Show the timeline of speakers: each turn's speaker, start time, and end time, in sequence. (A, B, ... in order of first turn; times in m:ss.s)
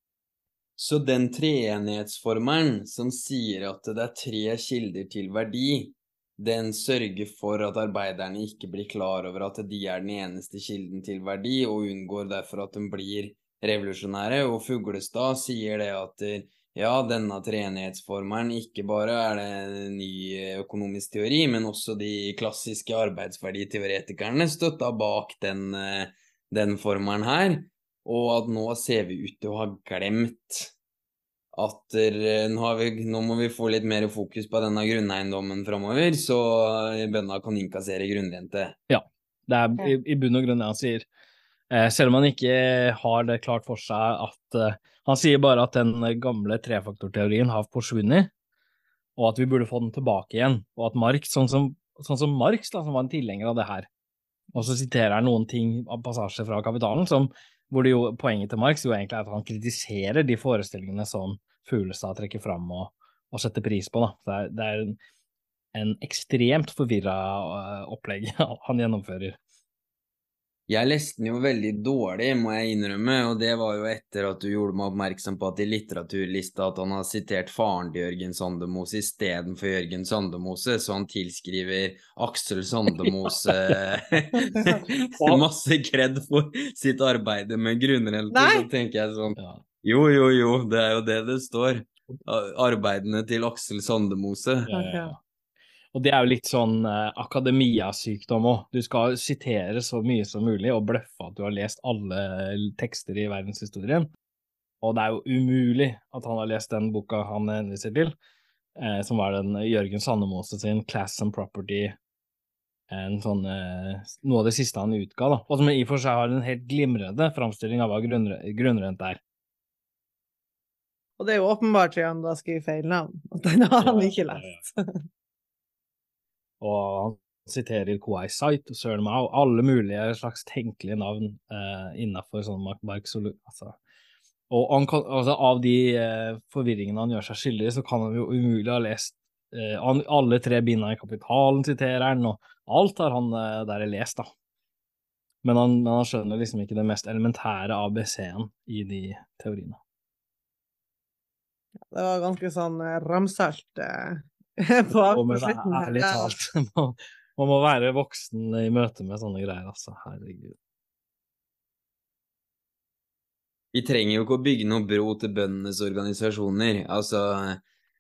0:00.8-0:30.7 A
0:31.5-0:38.8 A
0:38.9-0:41.1 B
0:41.7-0:48.3 B
0:49.2-0:53.9 B
0:54.5-1:05.0 B
1:05.7-1:09.4 B
1:10.7-1:34.7 A
1:23.0-1:23.8 B
1:24.4-1:25.4 B
1:28.3-1:28.7 C
1:29.4-1:29.6 B
1:34.7-1:35.2 B
1:34.7-1:35.1 C
1:35.9-1:44.1 B
1:44.8-1:48.1 B
1:48.8-1:52.0 B
1:52.9-1:59.2 B
2:01.2-2:05.0 C
2:03.8-2:04.6 B
2:06.6-2:13.8 B
2:14.5-2:24.3 B
2:25.4-2:29.8 B
2:31.9-2:36.3 C
2:35.1-2:40.6 B
2:43.7-2:47.6 A